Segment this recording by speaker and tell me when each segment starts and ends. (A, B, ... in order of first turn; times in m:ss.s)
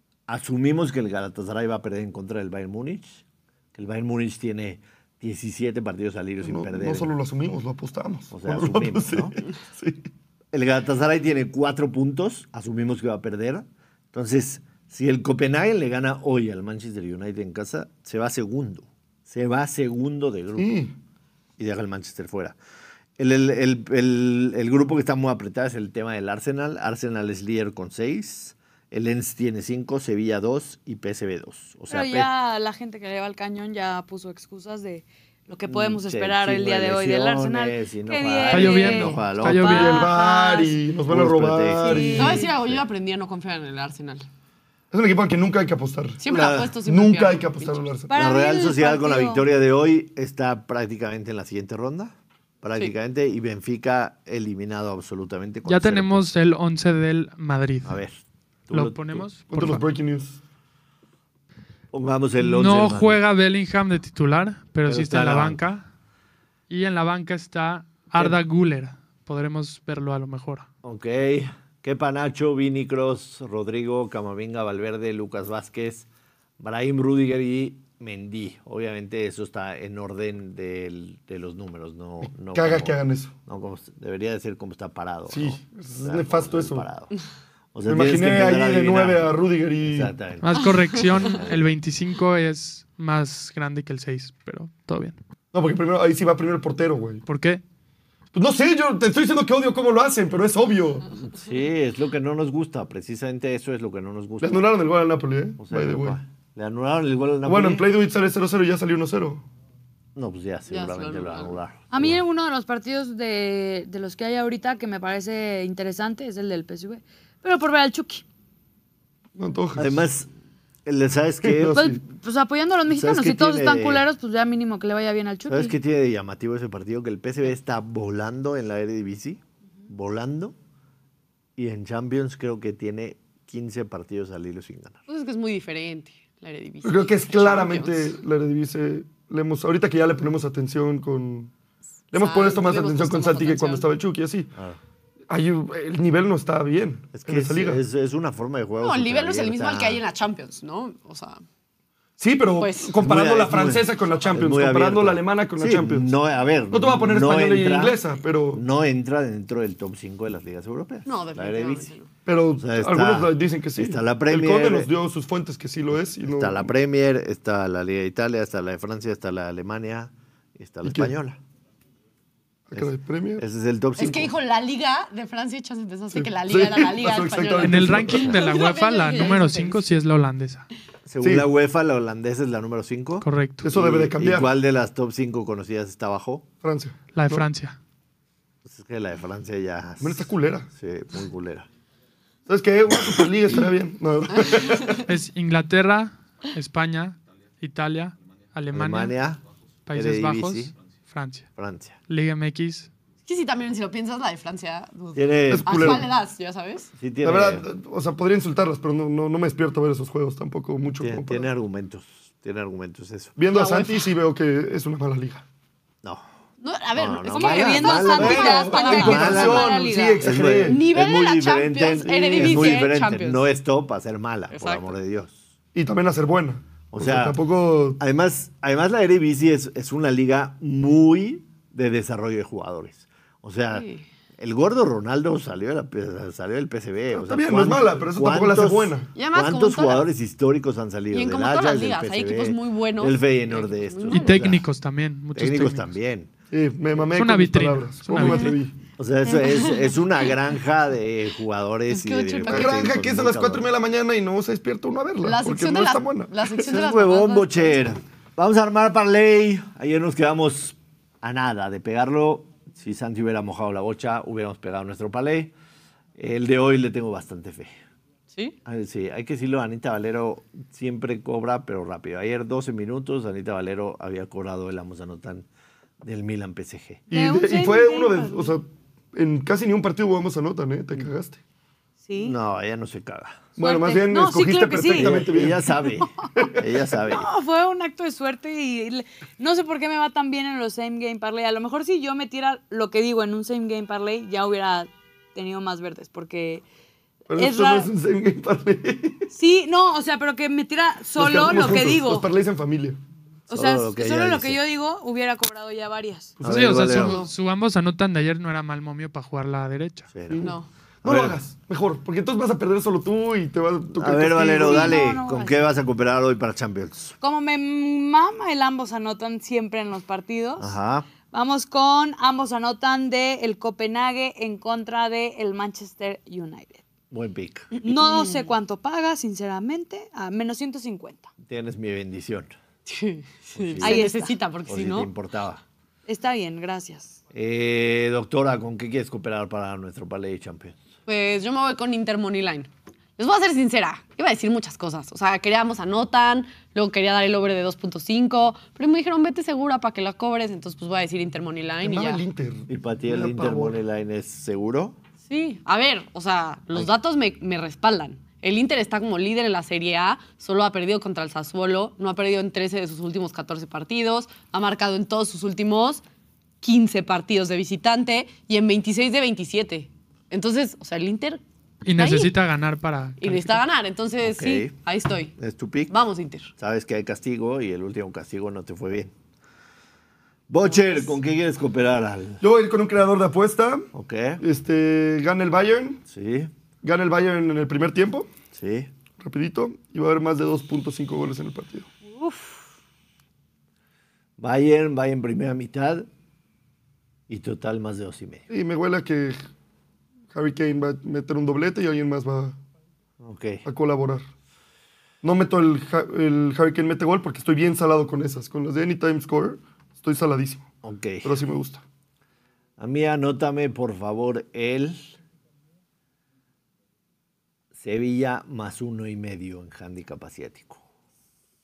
0:00.3-0:03.2 A
0:03.7-0:07.1 A
0:06.4-0:10.1 B
0:08.3-0:09.4 A
0:10.5-0:20.7 A
0:20.6-0:20.9 B
0:21.6-0:22.6 A
0:23.2-0:32.3 A
0:31.9-0:40.8 C
0:35.7-0:39.7 A
0:38.5-0:40.1 D
0:39.6-0:42.5 B
0:41.1-0:42.8 A
0:41.8-0:42.5 C
0:42.2-0:44.3 E
0:44.9-0:46.2 B
0:46.2-0:47.8 E
0:46.3-0:46.8 A
0:46.8-0:48.1 B
0:48.1-0:49.5 C
0:48.1-0:56.3 A
0:55.6-0:58.0 D
0:57.8-0:59.3 A
0:58.7-0:59.8 D
0:59.5-1:00.4 B
1:01.9-1:03.2 A
1:02.4-1:05.9 D
1:04.9-1:05.6 A
1:06.7-1:10.7 D
1:10.8-1:16.1 A
1:16.6-1:27.1 A
1:22.2-1:23.3 B
1:25.3-1:26.9 B
1:27.7-1:29.3 A
1:27.9-1:30.1 B
1:29.8-1:31.7 A
1:30.4-1:35.2 D
1:35.5-1:37.2 B
1:37.3-1:37.6 D
1:38.3-1:41.1 B
1:41.2-1:44.7 A
1:44.4-1:46.2 B
1:45.6-1:47.8 A
1:47.4-1:49.4 B
1:50.1-1:52.2 A
1:50.7-1:51.6 E
1:51.9-1:58.2 C
1:59.4-2:00.0 B
1:59.8-2:00.3 A
2:00.8-2:01.9 A
2:01.4-2:02.0 B
2:01.7-2:05.8 C
2:02.9-2:04.0 A
2:05.5-2:10.6 A
2:11.6-2:15.0 A
2:15.1-2:18.1 E
2:16.8-2:21.5 B
2:22.1-2:24.5 B
2:22.1-2:23.9 E
2:25.3-2:27.8 B
2:27.1-2:30.0 A
2:28.8-2:31.4 E
2:32.2-2:36.1 B
2:32.6-2:33.0 E
2:33.0-2:38.0 A
2:36.7-2:38.6 B
2:38.5-2:41.9 A
2:41.1-2:42.1 E
2:42.3-2:46.7 B
2:42.6-2:44.9 A
2:46.3-2:51.4 A
2:50.8-2:51.1 B
2:52.7-2:53.4 B
2:52.7-2:54.3 A
2:54.0-2:59.9 E
2:56.1-2:58.4 B
2:57.6-3:00.6 D
3:01.1-3:06.4 A
3:01.2-3:01.5 B
3:03.2-3:03.7 D
3:03.6-3:04.5 B
3:06.6-3:07.4 B
3:07.1-3:07.8 D
3:08.6-3:11.7 A
3:10.0-3:10.7 B
3:12.5-3:15.0 B
3:14.4-3:15.0 E
3:15.1-3:19.1 D
3:18.7-3:20.7 A
3:19.9-3:21.5 D
3:21.6-3:22.0 A
3:22.1-3:22.9 D
3:23.3-3:26.9 E
3:25.1-3:26.1 A
3:25.5-3:26.1 B
3:27.0-3:27.6 A
3:27.2-3:31.5 B
3:31.0-3:33.3 A
3:33.4-3:35.4 B
3:33.5-3:34.1 E
3:36.6-3:39.5 E
3:36.9-3:45.4 A
3:37.3-3:40.2 C
3:38.2-3:40.8 B
3:40.7-3:43.5 E
3:42.3-3:42.8 B
3:44.5-3:44.9 E
3:45.8-3:48.0 B
3:46.9-3:47.4 A
3:48.0-3:53.9 A
3:53.7-3:54.0 E
3:54.4-4:04.6 A
3:57.1-3:59.1 B
3:59.1-4:00.1 E
4:01.1-4:04.4 E
4:04.1-4:05.9 D
4:05.4-4:06.3 A
4:06.5-4:08.8 B
4:07.1-4:08.6 D
4:09.0-4:13.7 A
4:09.3-4:10.3 E
4:11.9-4:12.9 E
4:12.4-4:16.7 B
4:15.2-4:17.8 E
4:16.7-4:25.5 A
4:26.2-4:27.7 A
4:28.6-4:35.5 A
4:36.0-4:37.0 A
4:37.1-4:41.4 B
4:37.1-4:38.5 C
4:42.0-4:42.4 C
4:42.2-4:43.5 A
4:43.6-4:45.8 B
4:43.6-4:45.1 C
4:44.9-4:47.3 A
4:46.4-4:46.6 B
4:47.1-4:56.6 C
4:57.3-4:59.3 B
4:57.3-4:57.9 C
4:59.3-5:02.3 C
5:01.2-5:03.0 B
5:03.5-5:06.4 C
5:03.5-5:04.6 A
5:06.4-5:06.7 B
5:06.4-5:07.3 A
5:06.4-5:10.1 D
5:07.0-5:07.3 E
5:10.1-5:10.5 A
5:10.3-5:15.0 B
5:10.4-5:10.7 E
5:11.0-5:11.4 A
5:14.0-5:17.1 A
5:14.6-5:15.7 C
5:17.2-5:20.8 C
5:20.6-5:21.1 A
5:21.3-5:26.8 C
5:27.1-5:27.7 A
5:27.8-5:31.3 C
5:27.8-5:28.5 E
5:31.4-5:32.5 A
5:32.9-5:35.1 E
5:33.6-5:34.0 A
5:33.8-5:34.3 C
5:34.7-5:35.6 A
5:36.1-5:37.2 C
5:37.3-5:40.8 A
5:41.1-5:52.2 E
5:51.8-5:53.8 B
5:52.7-5:55.0 A
5:55.3-6:06.0 E
6:06.6-6:11.4 E
6:11.8-6:13.6 D
6:12.0-6:12.3 E
6:13.2-6:15.4 E
6:14.2-6:14.7 A
6:15.4-6:16.0 A
6:15.9-6:16.5 E
6:16.6-6:19.1 A
6:20.5-6:22.4 A
6:20.6-6:21.2 E
6:22.4-6:23.9 B
6:23.9-6:24.4 A
6:24.4-6:26.0 B
6:26.1-6:26.5 A
6:26.8-6:28.3 B
6:28.5-6:28.9 A
6:29.2-6:31.9 B
6:32.1-6:32.6 C
6:34.4-6:36.1 A
6:37.3-6:38.4 A
6:38.5-6:39.4 B
6:40.3-6:42.6 B
6:43.2-6:43.6 A
6:43.6-6:44.2 B
6:45.2-6:50.7 B
6:50.8-6:51.4 A
6:51.2-6:51.8 B
6:52.8-6:55.2 A
6:57.8-7:00.8 A